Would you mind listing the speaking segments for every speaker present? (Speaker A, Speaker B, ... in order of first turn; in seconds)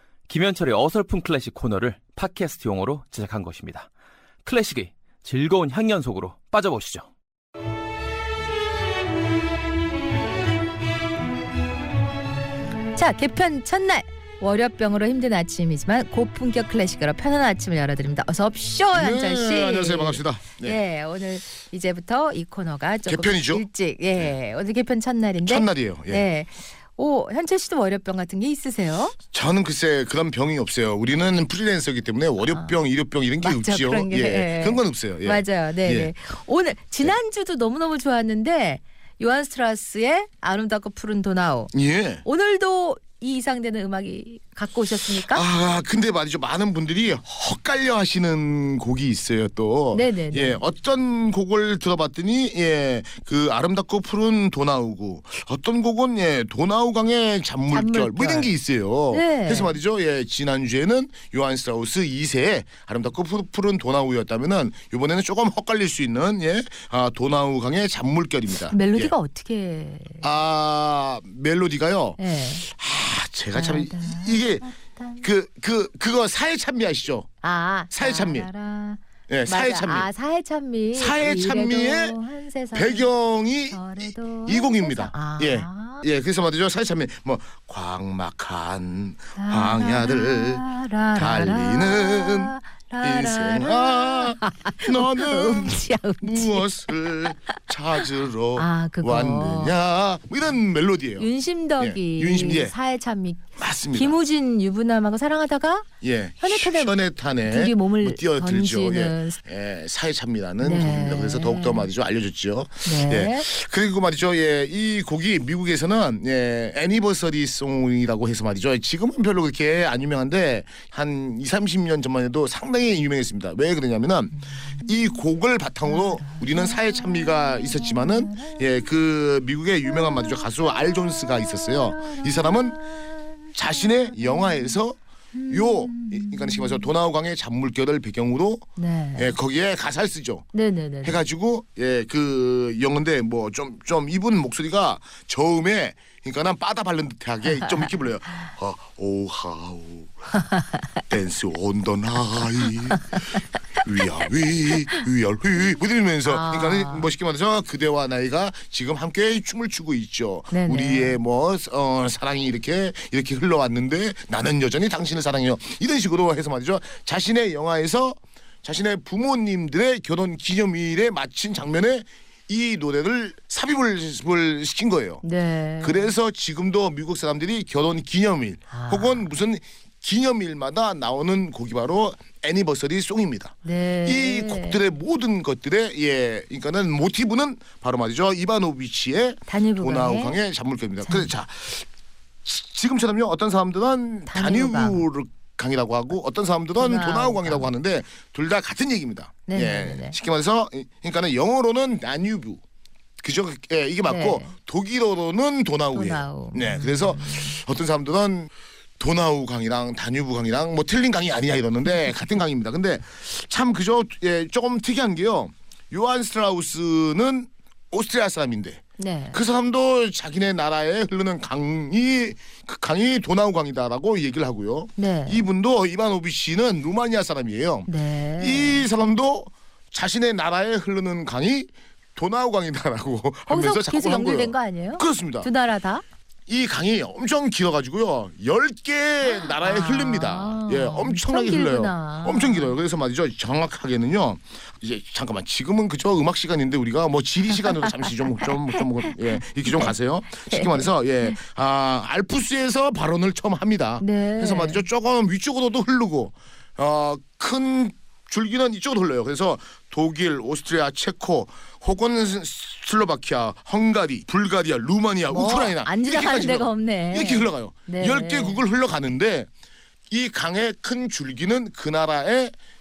Speaker A: 0.3-3.9, 4.4-7.1
Speaker B: 12.9-29.2, 32.5-32.8, 33.4-45.5, 49.9-50.6, 57.7-58.5, 59.1-59.8, 68.7-70.3, 72.2-72.6, 73.5-75.3, 77.4-83.1, 83.7-86.1, 89.4-97.5, 98.5-99.8, 101.2-105.9, 106.4-109.4, 110.6-111.9, 112.8-113.5, 124.4-125.2, 125.8-128.9, 129.8-134.8, 135.3-136.9, 138.8-139.4, 140.5-141.2, 156.2-157.1, 160.5-161.2, 175.2-176.1, 178.7-179.3, 183.6-184.8, 189.5-190.4, 191.0-191.3, 194.3-195.1, 196.8-197.7, 199.5-200.2, 204.1-204.5, 205.9-207.6, 219.0-219.4, 225.0-225.5, 227.9-228.9, 233.5-236.0, 239.2-242.8, 248.4-249.9, 250.5-251.4, 254.0-254.8, 265.3-268.6
Speaker C: 18.9-20.8, 23.1-23.7, 25.4-26.3, 29.3-36.1, 41.7-42.2, 45.1-69.2, 70.2-74.7, 75.2-77.3, 77.9-78.5, 79.3-80.1, 80.9-82.2, 82.7-101.3, 101.8-102.7, 103.6-104.2, 106.0-132.8, 133.5-135.0, 135.5-138.7, 139.2-140.5, 141.0-150.3, 151.1-175.2, 175.8-183.5, 184.1-191.9, 192.4-202.6, 203.2-218.8, 219.3-235.5, 236.5-269.5, 270.1-272.5